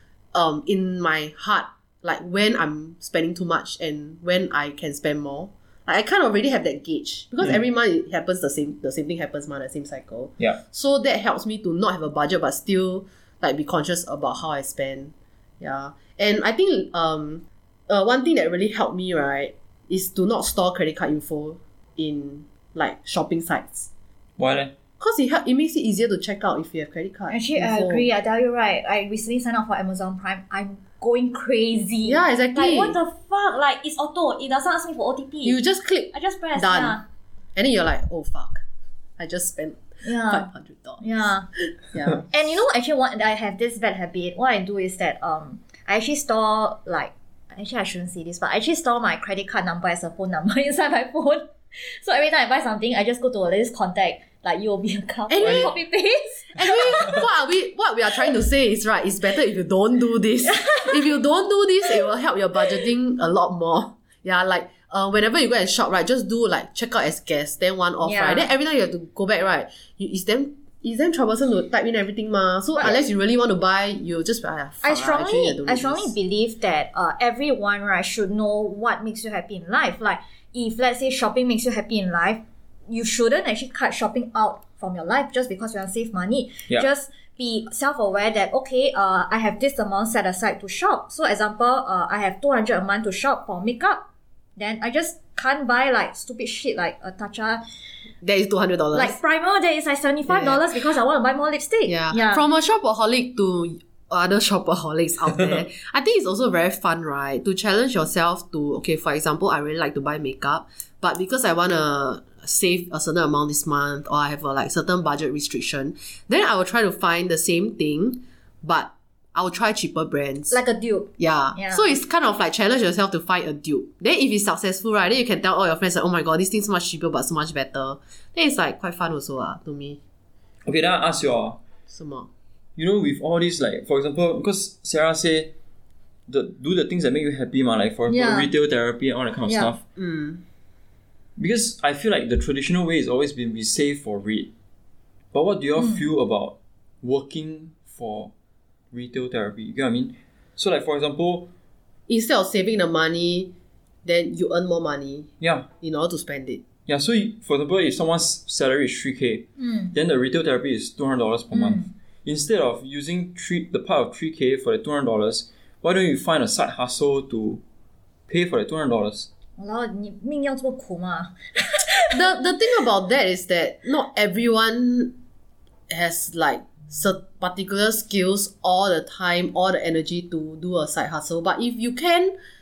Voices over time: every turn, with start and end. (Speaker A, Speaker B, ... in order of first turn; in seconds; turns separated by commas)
Speaker A: 0.3-23.9, Speaker B: 24.4-24.7, Speaker A: 25.0-28.1, Speaker C: 27.3-35.6, Speaker A: 32.0-33.0, Speaker A: 35.4-37.0, Speaker C: 36.1-37.0, Speaker A: 37.5-38.6, Speaker A: 39.2-42.3, Speaker C: 40.0-40.5, Speaker C: 41.0-41.5, Speaker C: 42.2-57.2, Speaker A: 55.3-55.7, Speaker A: 56.5-76.1, Speaker C: 60.5-61.1, Speaker C: 68.0-68.5, Speaker C: 74.8-94.0, Speaker C: 94.6-97.6, Speaker A: 98.2-99.2, Speaker C: 98.9-102.4, Speaker A: 100.3-100.6, Speaker A: 101.9-120.6, Speaker C: 120.5-121.9, Speaker A: 121.2-130.0, Speaker B: 130.6-131.6, Speaker A: 131.9-132.3, Speaker B: 132.8-135.5, Speaker B: 136.3-139.8, Speaker C: 138.1-138.5, Speaker C: 139.5-139.7, Speaker A: 139.9-140.4, Speaker B: 141.4-144.5, Speaker B: 145.3-148.3, Speaker C: 145.8-146.0, Speaker B: 148.9-151.5, Speaker A: 152.1-153.5, Speaker A: 154.0-155.3, Speaker B: 155.4-155.7, Speaker A: 155.8-156.6, Speaker B: 156.9-167.6, Speaker C: 159.6-159.9, Speaker C: 161.5-161.9, Speaker B: 168.3-169.3, Speaker C: 169.6-172.2, Speaker A: 172.1-175.1, Speaker A: 175.9-182.3